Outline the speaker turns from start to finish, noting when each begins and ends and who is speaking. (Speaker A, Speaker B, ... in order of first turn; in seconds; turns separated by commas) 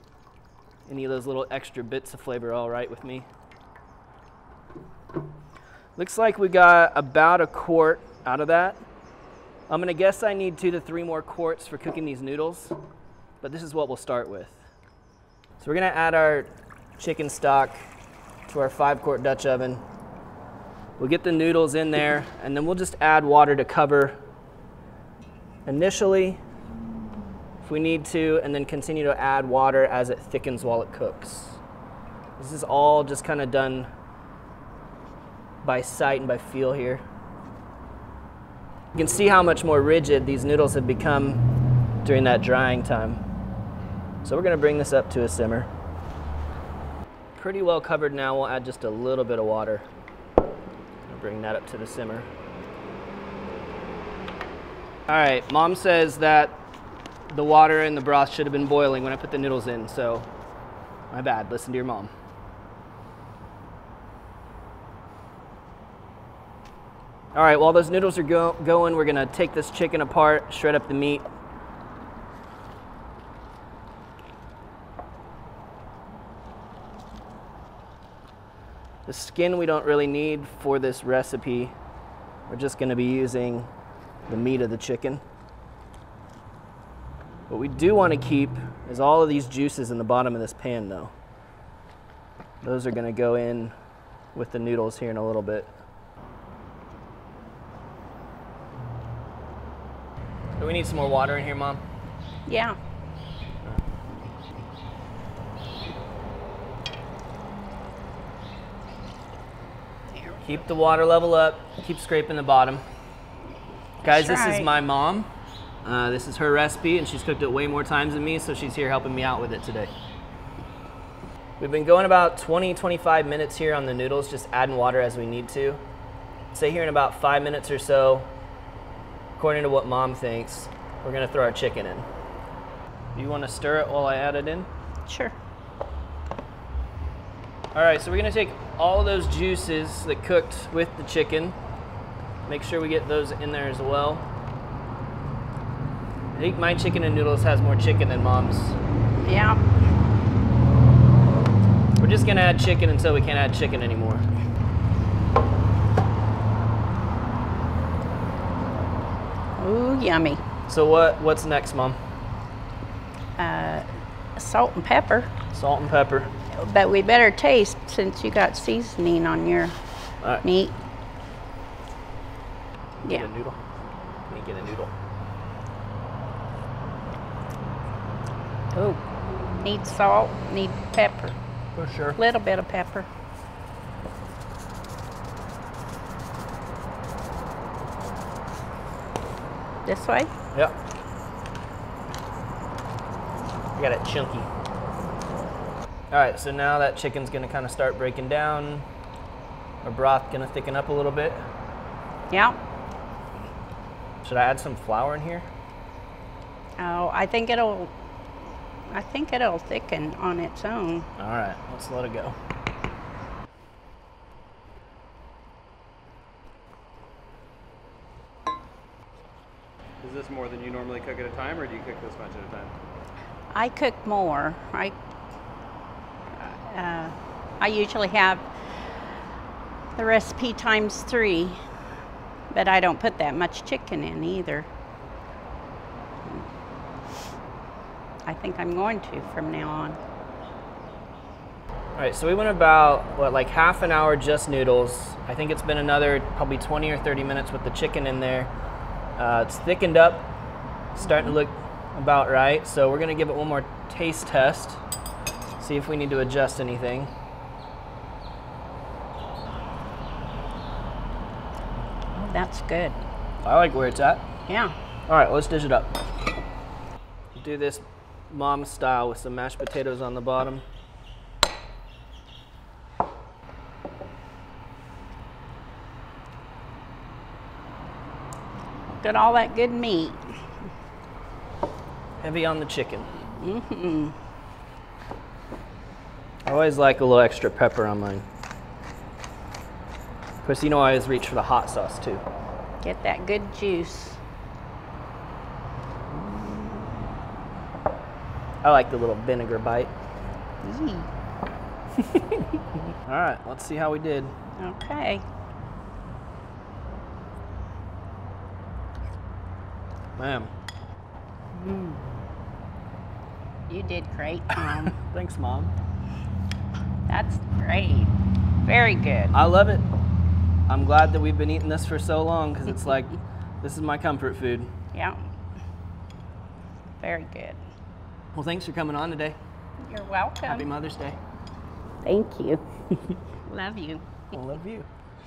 Speaker A: 0.9-3.3, Speaker A: 6.0-8.8, Speaker A: 9.7-12.8, Speaker A: 13.4-14.7, Speaker A: 15.6-17.8, Speaker A: 18.5-19.8, Speaker A: 21.0-24.2, Speaker A: 25.6-26.4, Speaker A: 27.6-31.6, Speaker A: 32.4-33.9, Speaker A: 35.6-37.0, Speaker A: 38.9-41.4, Speaker A: 42.0-43.2, Speaker A: 44.2-45.7, Speaker A: 47.4-49.9, Speaker A: 51.1-52.3, Speaker A: 55.1-56.6, Speaker A: 57.3-60.3, Speaker A: 61.1-62.1, Speaker A: 67.3-71.2, Speaker A: 79.0-81.7, Speaker A: 82.5-83.7, Speaker A: 84.3-85.2, Speaker A: 87.5-91.1, Speaker A: 92.6-93.7, Speaker A: 94.3-95.7, Speaker A: 100.6-101.8, Speaker B: 102.5-102.8, Speaker A: 110.4-112.8, Speaker B: 114.0-114.7, Speaker A: 114.0-115.3, Speaker A: 115.8-119.9, Speaker A: 121.6-125.8, Speaker A: 126.5-128.3, Speaker A: 129.4-132.1, Speaker A: 133.1-134.7, Speaker B: 135.1-135.3, Speaker A: 137.7-141.6, Speaker A: 142.4-144.2, Speaker A: 146.3-148.8, Speaker B: 149.2-149.6, Speaker A: 152.0-154.2, Speaker B: 159.6-160.4, Speaker A: 160.7-162.0, Speaker B: 163.4-163.8, Speaker B: 164.3-165.3, Speaker A: 165.5-166.3, Speaker B: 166.5-169.8, Speaker B: 170.4-170.7, Speaker A: 173.0-173.6, Speaker A: 174.3-174.9, Speaker B: 178.7-179.0, Speaker B: 179.6-181.3, Speaker A: 181.8-182.2, Speaker B: 182.2-183.1, Speaker B: 189.8-190.3, Speaker A: 193.8-194.5, Speaker A: 196.1-198.8, Speaker A: 199.8-201.4, Speaker B: 202.3-202.6, Speaker A: 204.2-205.5, Speaker B: 206.8-207.9, Speaker B: 208.9-211.1, Speaker A: 211.2-212.4, Speaker C: 220.0-222.7, Speaker B: 223.5-224.9, Speaker B: 226.4-228.4, Speaker B: 229.9-231.6, Speaker B: 232.5-234.7, Speaker B: 238.2-240.0, Speaker A: 241.9-248.5, Speaker A: 249.2-250.3, Speaker A: 250.9-254.8, Speaker A: 255.6-257.1, Speaker B: 262.1-263.0, Speaker A: 263.4-264.3, Speaker B: 264.5-264.7, Speaker A: 265.1-266.0, Speaker A: 267.3-270.6, Speaker B: 279.0-280.4, Speaker A: 282.2-283.2, Speaker B: 283.3-284.1, Speaker A: 286.4-288.2, Speaker A: 290.4-292.2, Speaker B: 292.8-294.2, Speaker A: 298.6-299.9, Speaker B: 300.6-301.1, Speaker A: 302.0-302.4, Speaker A: 303.0-304.3, Speaker B: 304.6-305.2, Speaker A: 310.2-310.5, Speaker B: 311.5-312.1, Speaker B: 313.7-315.0, Speaker A: 314.7-315.7, Speaker B: 317.1-318.1, Speaker B: 318.6-319.3, Speaker A: 319.3-319.9, Speaker A: 320.7-324.7, Speaker B: 324.9-325.2, Speaker B: 327.0-327.6, Speaker A: 328.3-329.4, Speaker B: 329.8-330.6, Speaker A: 330.4-331.2, Speaker B: 332.0-332.6, Speaker B: 333.4-334.0, Speaker A: 334.3-334.9